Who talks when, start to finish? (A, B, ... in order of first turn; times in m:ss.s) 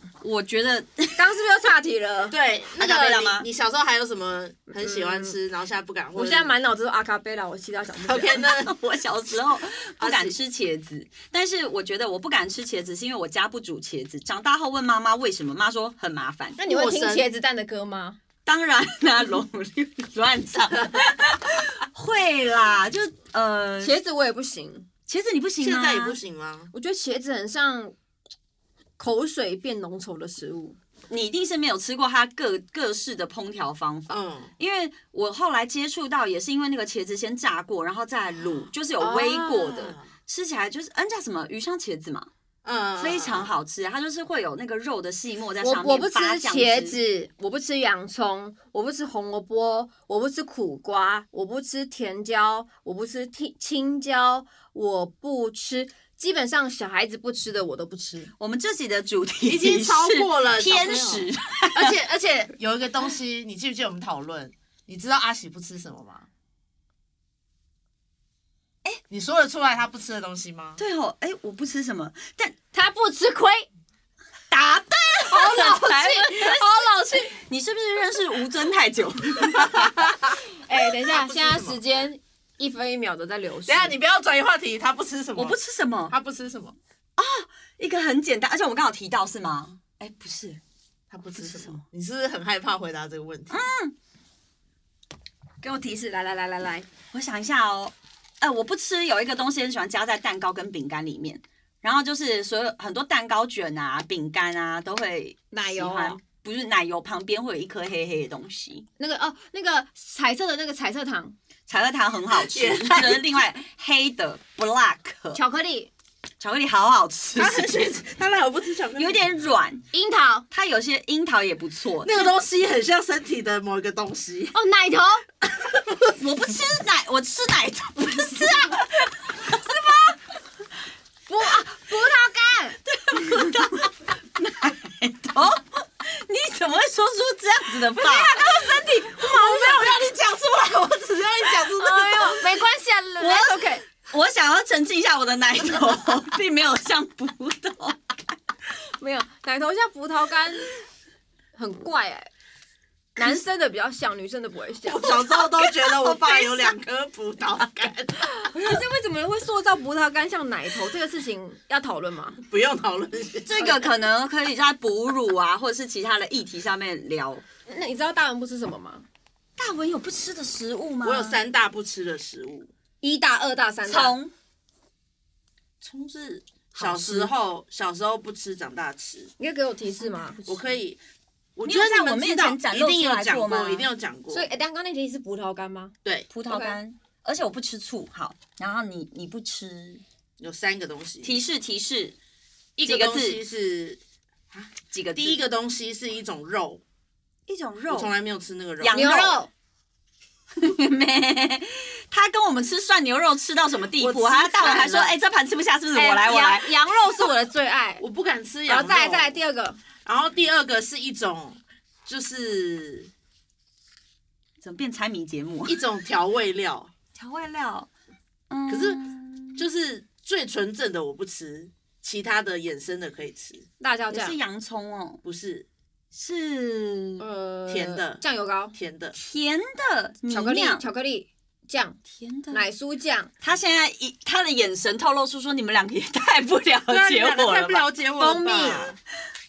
0:00.2-0:01.3 A
0:01.2-0:02.4 B
0:02.3-0:06.6 C
0:02.8-0:03.5 A
0:04.7-0:05.4 B
0:06.2-0:08.4 B
0:08.0-0:08.8 C
0:08.4-0:16.6 A
0:10.0-0:10.4 C
0:16.6-0:17.3 C
0:16.6-0:18.2 B
0:18.5-0:23.9 A
0:23.8-0:24.9 B
0:25.1-0:26.2 A
0:25.6-0:26.7 C
0:26.7-0:28.0 B
0:29.0-0:30.8 B
0:31.1-0:42.3 A
0:34.1-0:34.5 C
0:39.0-0:40.1 C
0:42.6-0:43.5 C
0:43.0-0:47.0 A
0:45.6-0:58.3 B
0:58.4-1:02.0 A
0:59.4-1:06.3 C
1:09.1-1:10.8 C
1:10.8-1:12.6 A
1:12.7-1:13.6 B
1:14.5-1:16.8 A
1:15.3-1:17.4 B
1:17.3-1:20.1 A
1:19.5-1:21.8 C
1:20.6-1:23.9 B
1:23.7-1:25.6 C
1:25.4-1:26.1 A
1:26.1-1:26.8 C
1:27.2-1:30.6 A
1:31.1-1:33.6 C
1:31.4-1:31.8 A
1:33.5-1:33.9 A
1:35.6-1:36.9 B
1:37.1-1:48.9 A
1:45.5-1:46.2 B
1:49.0-1:51.4 B
1:51.7-1:55.4 A
1:52.4-1:53.4 C
1:55.3-1:55.9 B
1:56.4-1:57.7 A
1:57.4-1:59.2 C
1:59.0-1:59.8 A
1:59.9-2:00.5 B
2:00.5-2:02.3 A
2:02.0-2:04.5 C
2:04.5-2:05.2 B
2:05.6-2:06.1 C
2:06.1-2:09.6 A
2:09.6-2:10.0 B
2:11.3-2:12.8 B
2:12.9-2:18.4 A
2:18.0-2:20.0 B
2:18.8-2:22.4 C
2:21.8-2:23.8 B
2:23.2-2:28.2 A
2:29.0-2:30.7 B
2:31.6-2:32.3 B
2:33.2-2:35.2 B
2:34.8-2:38.5 C
2:35.4-2:36.8 A
2:38.2-2:42.4 B
2:42.4-2:43.8 C
2:43.5-2:47.4 A
2:47.7-2:49.0 B
2:49.6-2:51.4 A
2:51.0-2:52.7 C
2:53.0-2:54.2 B
2:53.9-2:54.3 A
2:55.8-2:59.3 C
2:56.8-2:57.2 B
2:59.4-3:00.4 B
3:00.4-3:01.0 C
3:01.6-3:04.5 C
3:01.6-3:03.9 A
3:04.3-3:06.0 B
3:06.3-3:10.0 A
3:06.5-3:06.8 B
3:10.4-3:11.4 C
3:11.2-3:12.2 A
3:12.8-3:14.0 C
3:12.8-3:13.4 A
3:14.5-3:16.8 C
3:14.8-3:15.4 A
3:17.5-3:18.1 A
3:17.9-3:19.1 C
3:18.8-3:19.4 A
3:18.9-3:19.5 B
3:20.6-3:27.3 A
3:24.0-3:25.2 C
3:26.0-3:28.0 B
3:28.0-3:29.4 C
3:28.7-3:29.8 B
3:30.0-3:33.1 C
3:34.6-3:35.8 A
3:35.7-3:36.9 C
3:37.2-3:37.9 A
3:38.5-3:39.7 A
3:38.7-3:39.0 C
3:39.6-3:43.7 C
3:43.8-3:44.4 B
3:44.1-3:45.2 A
3:45.2-3:45.7 C
3:46.1-3:47.2 A
3:47.2-3:48.8 B
3:47.7-3:48.2 C
3:48.7-3:49.2 C
3:49.2-3:50.8 A
3:50.3-3:52.0 B
3:52.1-3:52.6 A
3:52.5-3:53.3 B
3:53.4-3:57.9 A
3:56.9-3:59.0 C
3:58.2-3:58.9 B